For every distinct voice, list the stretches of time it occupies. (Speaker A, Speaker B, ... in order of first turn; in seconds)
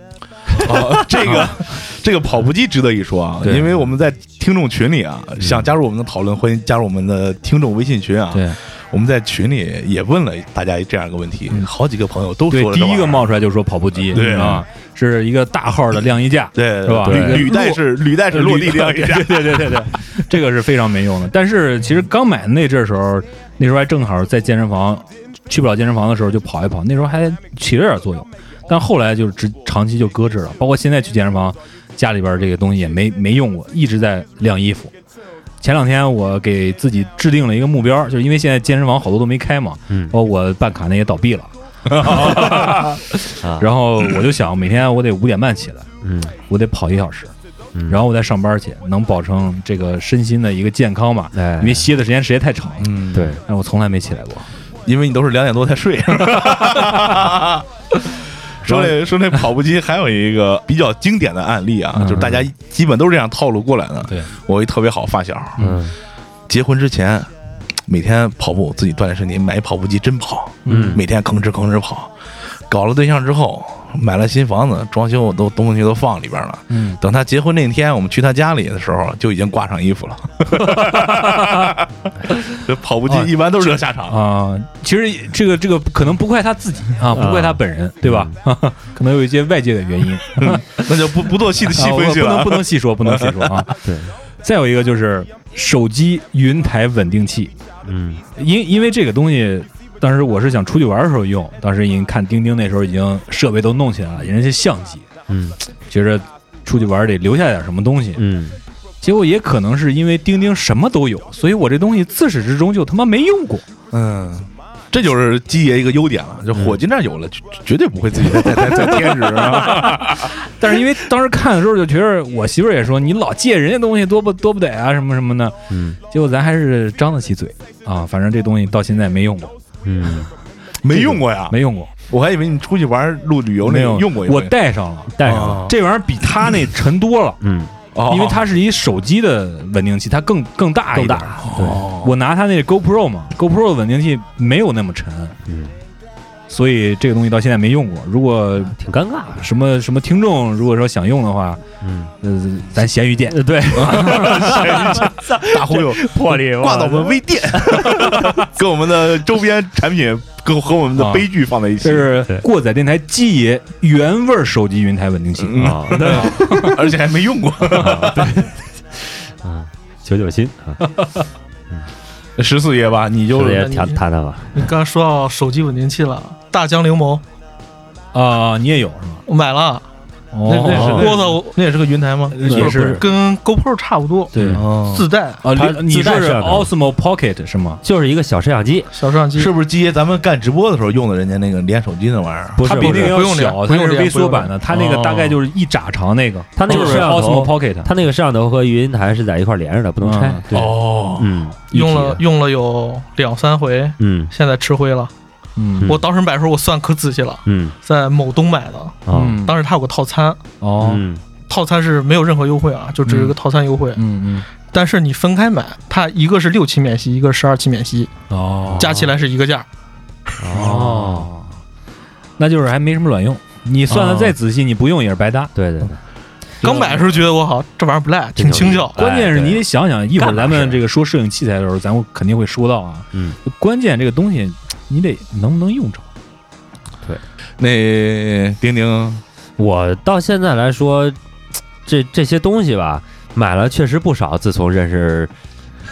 Speaker A: 0.6-13.3, 14.1-14.6, 16.5-19.9, 42.0-42.7, 52.8-53.3, 54.9-65.6, 66.5-67.3, 67.9-72.1, 72.7-84.2, 90.3-93.7, 113.9-120.3, 130.8-131.6, 132.1-134.5, 135.2-135.7, 137.9-138.4, 141.4-142.1, 153.7-162.2, 165.4-168.4, 172.4-173.7, 180.4-182.4, 184.5-185.1, 189.3-192.6, 200.5-201.4, 237.6-239.2
Speaker B: 0.6-1.5, 8.3-8.6, 12.5-34.9, 35.6-45.9, 46.5-47.3, 47.9-54.5, 58.6-58.9, 61.9-62.3, 70.7-71.0, 76.7-77.0, 80.7-81.7, 83.1-90.9, 91.7-93.7, 94.4-97.5, 98.3-105.1, 105.9-108.2, 109.0-113.6, 119.6-129.5, 130.9-131.9, 133.6-137.4, 138.1-141.5, 142.0-145.3, 146.5-148.7, 149.4-151.6, 152.2-155.1, 161.0-161.2, 161.8-166.8, 167.9-168.3, 170.8-171.2, 178.1-179.2, 180.3-181.2, 182.3-183.0, 184.3-184.6, 185.4-187.8, 192.6-197.9, 200.0-200.5, 201.9-202.2, 205.6-205.9, 209.1-209.5, 210.6-211.0, 213.0-213.3, 213.9-214.4, 218.3-219.1, 220.5-221.5, 222.4-225.5, 226.6-227.0, 228.9-236.1
Speaker C: 5.4-5.7, 17.0-17.5, 46.0-46.3, 51.4-51.8, 53.1-53.4, 62.2-62.4, 65.6-65.9, 70.7-71.0, 87.1-88.3, 93.8-94.1, 97.8-98.2, 105.3-105.5, 108.2-108.6, 125.7-126.0, 129.8-130.3, 135.2-135.7, 137.4-137.7, 140.9-141.8, 145.5-145.7, 148.8-149.5, 151.8-152.1, 153.3-158.2, 165.6-166.3, 167.7-168.5, 169.4-170.8, 173.3-174.7, 180.7-181.1, 182.4-183.1, 184.3-184.6, 185.5-186.7, 187.8-188.9, 192.6-193.4, 194.7-195.4, 196.6-202.2, 204.0-204.3, 207.4-207.7, 209.1-209.4, 210.8-211.2, 218.7-219.1, 220.4-221.3, 223.9-224.3, 225.5-226.0, 228.3-229.7, 230.2-230.8, 233.1-233.4, 239.6-241.2, 241.8-245.3
Speaker D: 173.6-174.0, 174.5-177.2, 179.2-179.8, 180.8-181.6, 182.4-184.3, 184.8-185.4, 188.9-189.5, 192.7-194.5, 201.7-205.1, 205.8-210.4, 211.5-214.0, 214.7-218.1, 218.8-219.7, 226.6-228.9